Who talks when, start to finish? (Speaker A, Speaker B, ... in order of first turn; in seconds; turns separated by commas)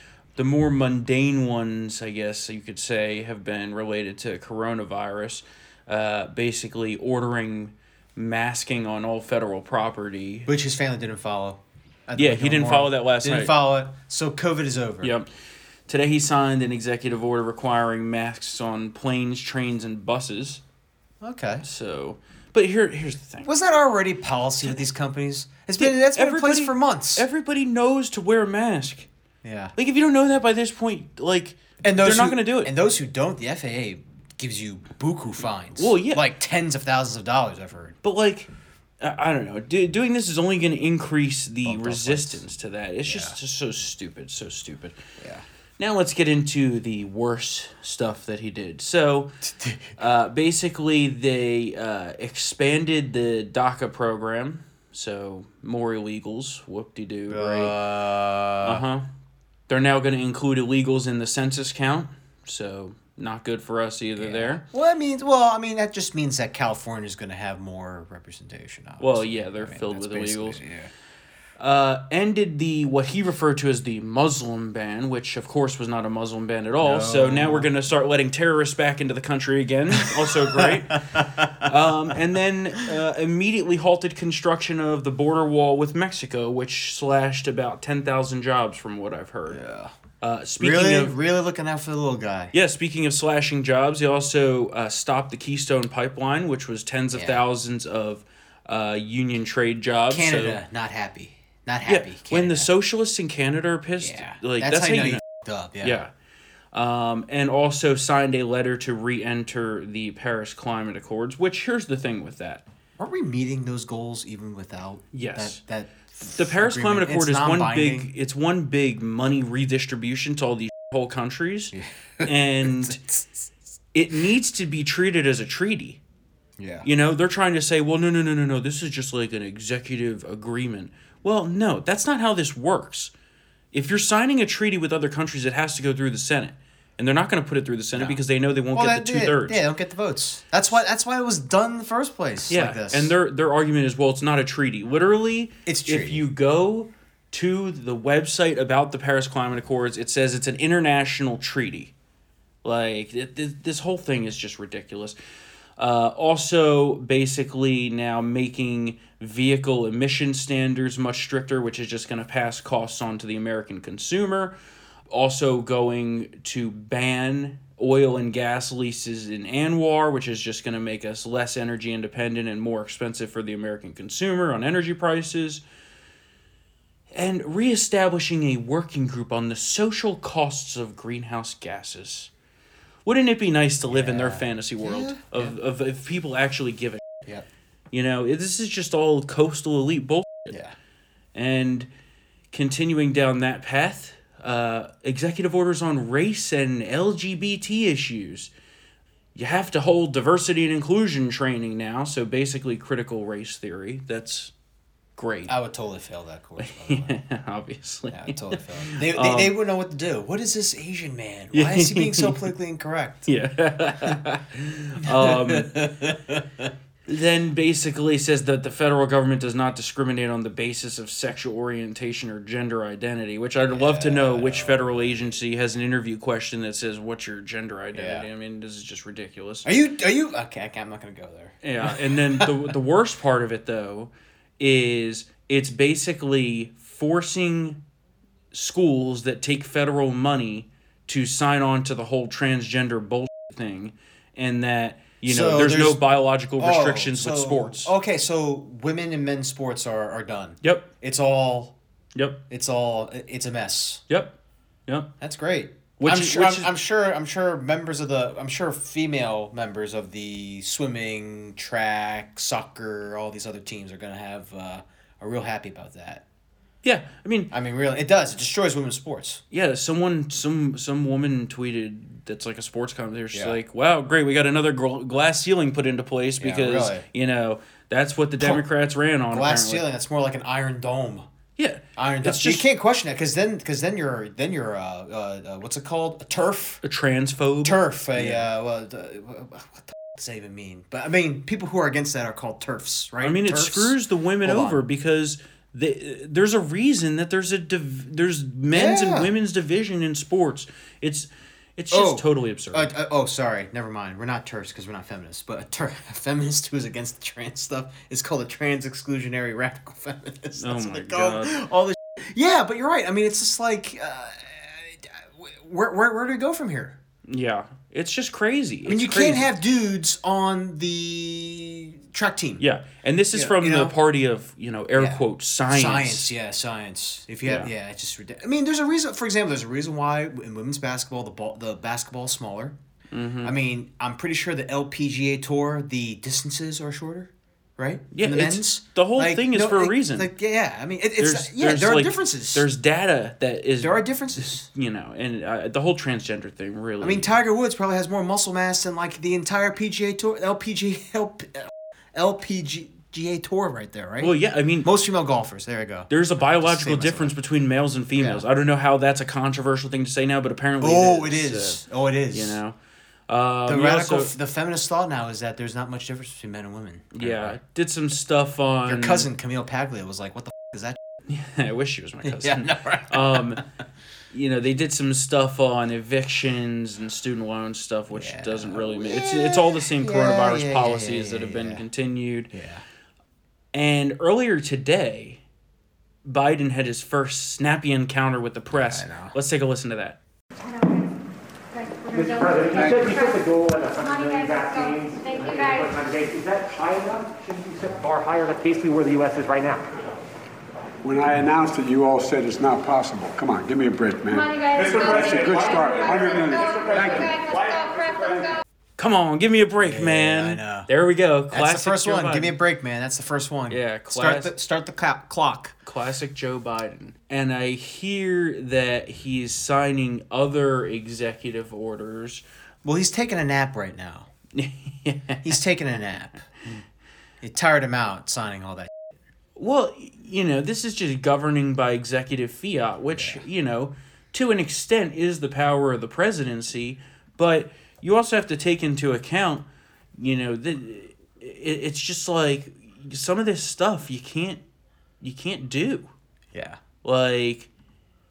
Speaker A: 0.3-10.5, Speaker B: 10.5-15.1, Speaker A: 12.2-13.5, Speaker A: 15.0-15.3, Speaker A: 15.9-20.6, Speaker B: 21.2-21.6, Speaker A: 21.6-23.5, Speaker B: 23.4-27.3, Speaker A: 25.8-29.1, Speaker B: 29.4-29.7, Speaker A: 29.8-32.7, Speaker B: 31.8-37.9, Speaker A: 35.8-36.2, Speaker A: 38.0-38.5, Speaker A: 39.0-45.0, Speaker B: 41.6-42.4, Speaker B: 43.0-43.4, Speaker B: 45.2-45.4, Speaker A: 45.8-49.4, Speaker B: 49.5-49.9, Speaker A: 50.0-57.7, Speaker B: 57.3-58.8, Speaker A: 58.6-59.0, Speaker A: 59.7-64.6, Speaker B: 64.2-70.9, Speaker A: 69.0-70.6, Speaker A: 71.6-89.6, Speaker B: 76.8-77.7, Speaker B: 80.0-81.7, Speaker B: 89.5-89.9, Speaker A: 90.2-91.1, Speaker B: 90.6-92.5, Speaker A: 92.5-100.6, Speaker B: 97.1-97.4, Speaker B: 100.1-102.7, Speaker A: 101.8-105.2, Speaker B: 104.0-106.0, Speaker A: 105.8-106.1, Speaker A: 106.7-112.6, Speaker B: 113.0-118.1, Speaker A: 115.1-115.6, Speaker A: 116.2-123.0, Speaker B: 121.7-123.4, Speaker A: 123.9-126.0, Speaker B: 126.6-126.9, Speaker A: 126.8-133.1, Speaker A: 133.7-139.6, Speaker B: 137.9-138.2, Speaker B: 138.7-143.1, Speaker A: 142.5-151.9, Speaker B: 145.7-146.2, Speaker A: 152.6-155.2, Speaker A: 155.8-164.5, Speaker A: 165.1-175.6, Speaker A: 177.1-182.3, Speaker A: 183.0-187.0, Speaker B: 183.9-185.5, Speaker A: 187.9-190.5, Speaker B: 190.5-190.7, Speaker A: 191.3-191.9, Speaker A: 192.5-198.5, Speaker A: 199.3-204.5, Speaker A: 205.2-205.5, Speaker B: 205.5-207.1, Speaker A: 206.6-209.5, Speaker B: 208.1-213.3, Speaker A: 211.5-212.5, Speaker A: 213.2-215.8, Speaker B: 215.0-216.7, Speaker A: 217.1-229.7, Speaker B: 223.7-225.3, Speaker B: 227.9-228.3, Speaker B: 229.6-232.7, Speaker A: 231.6-237.8, Speaker A: 238.5-247.9, Speaker B: 245.2-246.0, Speaker B: 246.6-251.7, Speaker A: 250.6-250.9, Speaker A: 252.1-252.4, Speaker B: 252.5-254.0, Speaker A: 254.1-254.3, Speaker A: 254.9-255.1, Speaker B: 255.2-266.2, Speaker A: 256.0-256.7, Speaker A: 266.8-267.5, Speaker B: 267.5-269.4, Speaker A: 269.5-279.8, Speaker B: 276.4-277.1, Speaker B: 278.4-278.6, Speaker B: 279.3-281.3, Speaker A: 281.6-282.6, Speaker B: 281.9-286.8, Speaker A: 286.8-288.5, Speaker B: 287.6-294.8, Speaker A: 293.2-302.9, Speaker B: 298.7-299.3, Speaker B: 301.9-317.0, Speaker A: 310.6-311.6, Speaker A: 317.3-319.5, Speaker B: 318.9-322.6, Speaker A: 322.6-326.3, Speaker B: 323.3-323.9, Speaker B: 324.9-332.8, Speaker A: 327.4-327.7, Speaker A: 333.1-333.5, Speaker B: 333.4-342.7, Speaker A: 338.1-340.3, Speaker A: 341.2-347.3, Speaker B: 343.8-344.7, Speaker B: 347.0-357.3, Speaker A: 354.2-354.9, Speaker A: 356.1-362.8, Speaker B: 358.2-358.4, Speaker B: 360.8-362.6, Speaker A: 363.3-364.3, Speaker B: 363.6-367.6, Speaker A: 367.1-369.3, Speaker B: 368.9-371.0, Speaker A: 371.3-373.6, Speaker B: 372.2-373.6, Speaker A: 374.3-382.5, Speaker B: 378.1-381.9, Speaker B: 382.5-382.8, Speaker A: 383.7-385.4, Speaker A: 386.2-390.2, Speaker B: 388.7-389.4, Speaker C: 390.6-391.1, Speaker C: 391.7-393.4, Speaker D: 392.1-399.9, Speaker E: 392.8-393.1, Speaker C: 394.0-395.9, Speaker E: 401.0-407.9, Speaker C: 404.3-408.6, Speaker A: 409.0-412.5, Speaker B: 409.8-410.9, Speaker B: 411.5-415.8, Speaker A: 413.7-414.5, Speaker A: 415.8-422.4, Speaker B: 422.8-424.3, Speaker A: 424.5-425.6, Speaker B: 425.4-426.5, Speaker B: 427.4-428.9, Speaker A: 429.6-439.6, Speaker B: 433.1-433.4, Speaker A: 440.2-444.6, Speaker A: 445.2-446.1, Speaker B: 446.5-446.8, Speaker A: 447.0-447.7